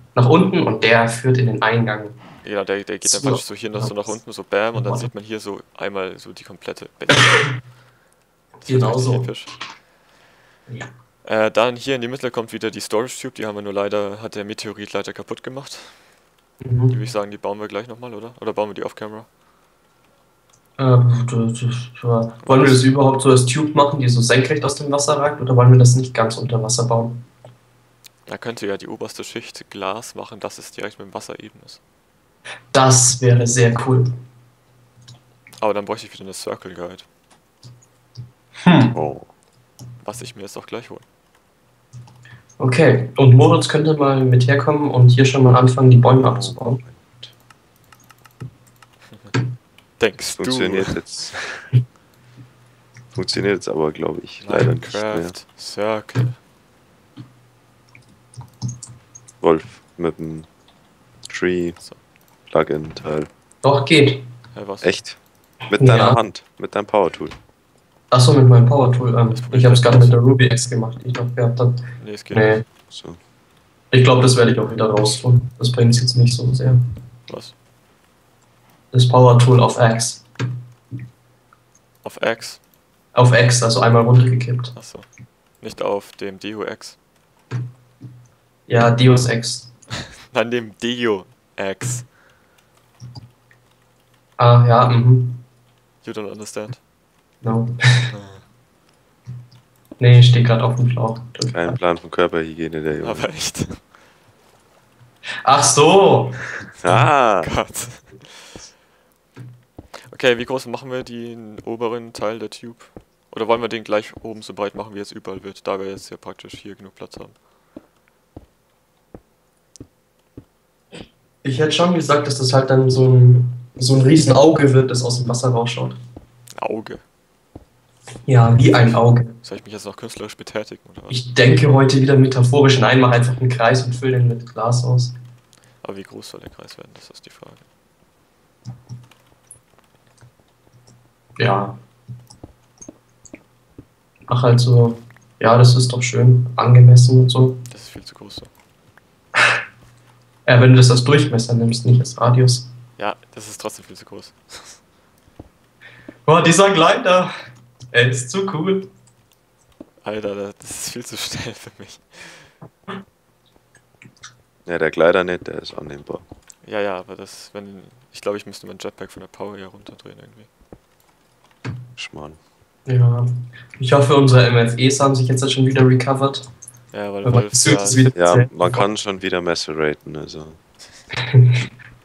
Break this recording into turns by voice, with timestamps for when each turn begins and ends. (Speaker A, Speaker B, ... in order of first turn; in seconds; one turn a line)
Speaker A: 0.1-2.2
Speaker B: 2.4-7.5
Speaker A: 3.0-5.1
Speaker A: 8.6-9.3
Speaker B: 8.7-9.5
Speaker B: 11.2-16.1
Speaker A: 16.6-16.9
Speaker B: 16.9-19.3
Speaker A: 20.8-27.2
Speaker B: 22.4-22.9
Speaker B: 28.2-31.8
Speaker A: 32.7-34.1
Speaker B: 35.6-37.1
Speaker A: 38.6-38.9
Speaker C: 38.9-39.3
Speaker B: 40.0-41.0
Speaker A: 42.6-46.8
Speaker C: 46.1-47.3
Speaker B: 50.0-51.0
Speaker C: 50.3-51.6
Speaker C: 53.1-55.3
Speaker B: 54.4-56.4
Speaker C: 59.4-60.5
Speaker C: 61.2-61.8
Speaker C: 62.5-63.3
Speaker A: 63.6-64.2
Speaker B: 64.5-64.9
Speaker C: 64.8-67.3
Speaker A: 65.8-66.2
Speaker A: 68.1-71.8
Speaker B: 69.3-70.2
Speaker B: 72.0-72.6
Speaker A: 72.3-72.6
Speaker C: 72.9-73.2
Speaker A: 73.9-76.8
Speaker B: 77.3-77.5
Speaker A: 78.9-80.2
Speaker B: 82.0-82.6
Speaker A: 83.1-84.7
Speaker B: 84.7-85.1
Speaker B: 85.6-87.0
Speaker A: 88.7-89.7
Speaker B: 90.3-92.1
Speaker A: 94.4-95.4
Speaker B: 96.0-96.8
Speaker A: 97.4-98.1
Speaker B: 98.1-98.4
Speaker A: 100.0-101.7
Speaker C: 101.5-103.3
Speaker B: 103.0-103.8
Speaker A: 105.5-106.5
Speaker C: 106.8-107.7
Speaker B: 106.9-108.6
Speaker B: 110.1-117.4
Speaker A: 121.4-126.0
Speaker B: 126.5-127.0
Speaker A: 128.3-129.3
Speaker B: 128.7-131.2
Speaker A: 131.1-135.2
Speaker B: 135.8-137.6
Speaker A: 141.4-141.8
Speaker A: 144.3-147.6
Speaker B: 147.7-148.5
Speaker A: 150.4-152.7
Speaker B: 153.0-154.8
Speaker A: 156.2-157.3
Speaker A: 157.9-158.9
Speaker B: 160.0-162.5
Speaker C: 164.7-166.2
Speaker B: 166.6-170.5
Speaker C: 172.0-172.4
Speaker A: 172.8-173.2
Speaker A: 173.8-176.5
Speaker B: 176.9-178.1
Speaker A: 177.2-178.5
Speaker C: 178.1-180.6
Speaker A: 181.3-181.6